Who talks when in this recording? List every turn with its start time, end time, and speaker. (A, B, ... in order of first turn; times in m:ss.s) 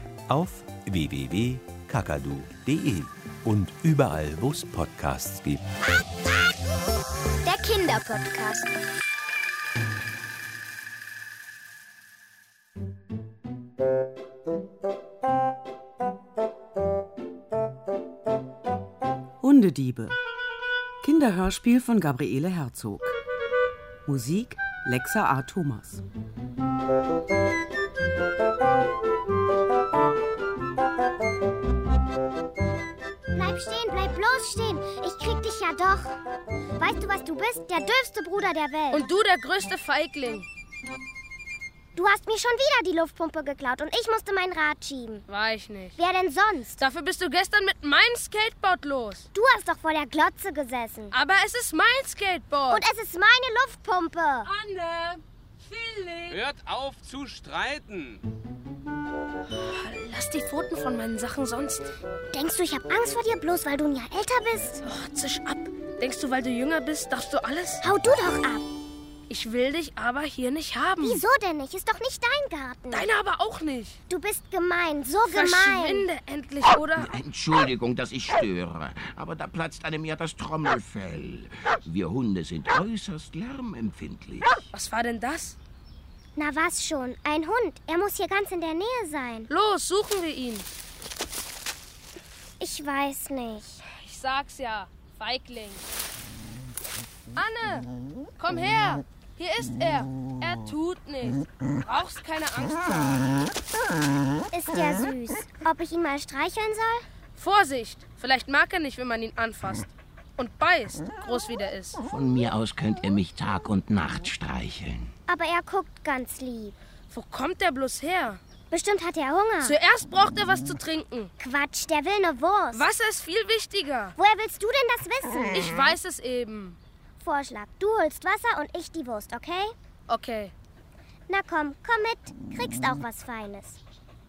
0:00.3-0:05.6 A
0:07.4-0:08.7 B
0:19.4-0:20.2 C
0:21.0-0:23.2 C
0:24.0-0:26.0 C
0:33.3-0:36.2 B
0:36.8-0:39.0 B
0:38.9-0:40.4 D
0:41.9-0:45.2 B
0:45.3-0:46.0 D
0:46.0-0:46.8 B
0:46.8-0:49.3 D
0:49.3-0:51.2 B
0:51.1-0:52.8 D
0:52.7-0:54.5 B
0:54.4-0:56.4 D
0:56.3-0:58.2 E
0:59.5-1:01.9 D
1:02.3-1:04.8 B
1:04.8-1:07.8 D
1:07.8-1:08.7 B
1:09.3-1:11.2 D
1:11.0-1:13.0 B
1:12.9-1:14.0 D
1:14.1-1:16.1 B
1:15.3-1:17.2 D
1:17.0-1:24.5 F
1:24.7-1:25.6 D
1:26.4-1:29.5 B
1:29.5-1:30.6 D
1:32.6-1:33.8 B
1:33.9-1:35.8 D
1:37.3-1:37.9 D
1:38.4-1:43.3 D
1:44.5-1:47.0 B
1:47.4-1:52.0 D
1:52.1-1:55.1 F
1:55.3-1:56.8 B
1:57.1-1:58.4 D
1:58.7-1:59.8 B
1:59.6-2:01.3 D
2:01.4-2:02.8 B
2:02.7-2:04.2 D
2:04.2-2:05.8 B
2:05.5-2:06.8 D
2:07.2-2:09.7 B
2:10.1-2:10.5 D
2:11.3-2:13.8 B